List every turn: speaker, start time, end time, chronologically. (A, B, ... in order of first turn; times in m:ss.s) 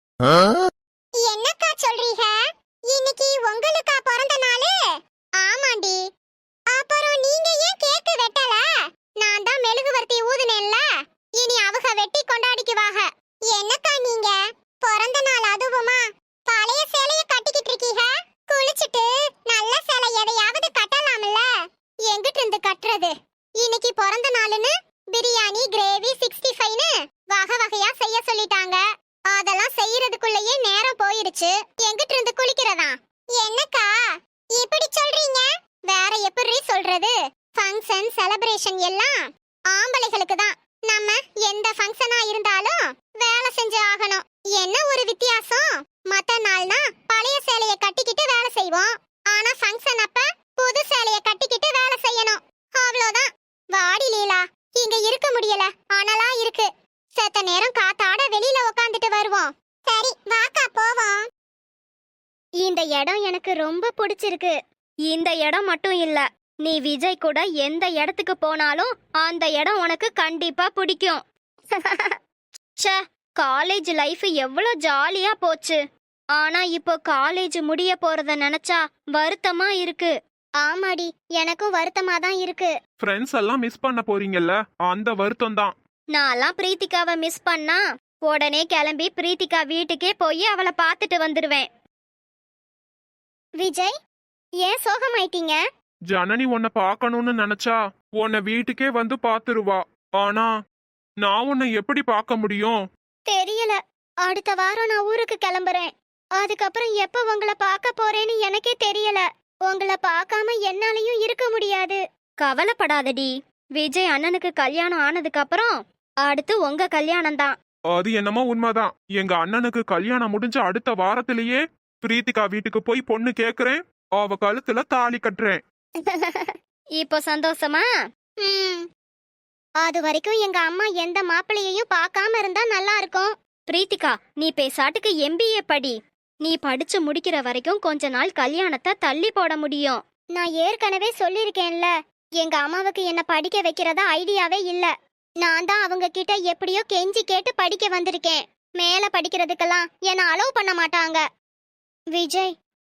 0:01.2-0:06.0 A
0:06.7-0:08.7 A
0:09.2-0:10.8 A
0:11.4-0:21.5 A
0:22.1-0:33.9 A
0:34.6-0:39.2 A
0:39.7-1:01.2 A
1:02.6-1:04.6 A
1:05.1-1:11.2 B
1:11.8-1:12.2 B
1:12.8-1:15.8 B
1:16.4-1:20.2 B
1:20.6-1:22.7 A
1:23.0-1:25.7 C
1:26.1-1:31.7 B
1:33.6-1:33.9 A
1:34.6-1:35.6 A
1:36.1-1:40.5 C
1:41.2-1:42.8 C
1:43.3-1:52.0 A
1:52.4-1:57.6 B
1:57.9-2:05.6 C
2:06.0-2:07.9 B
2:08.4-2:08.9 A
2:09.8-2:13.3 A
2:13.7-2:20.0 B
2:20.4-2:24.9 A
2:25.4-2:31.2 A
2:32.1-2:32.5 A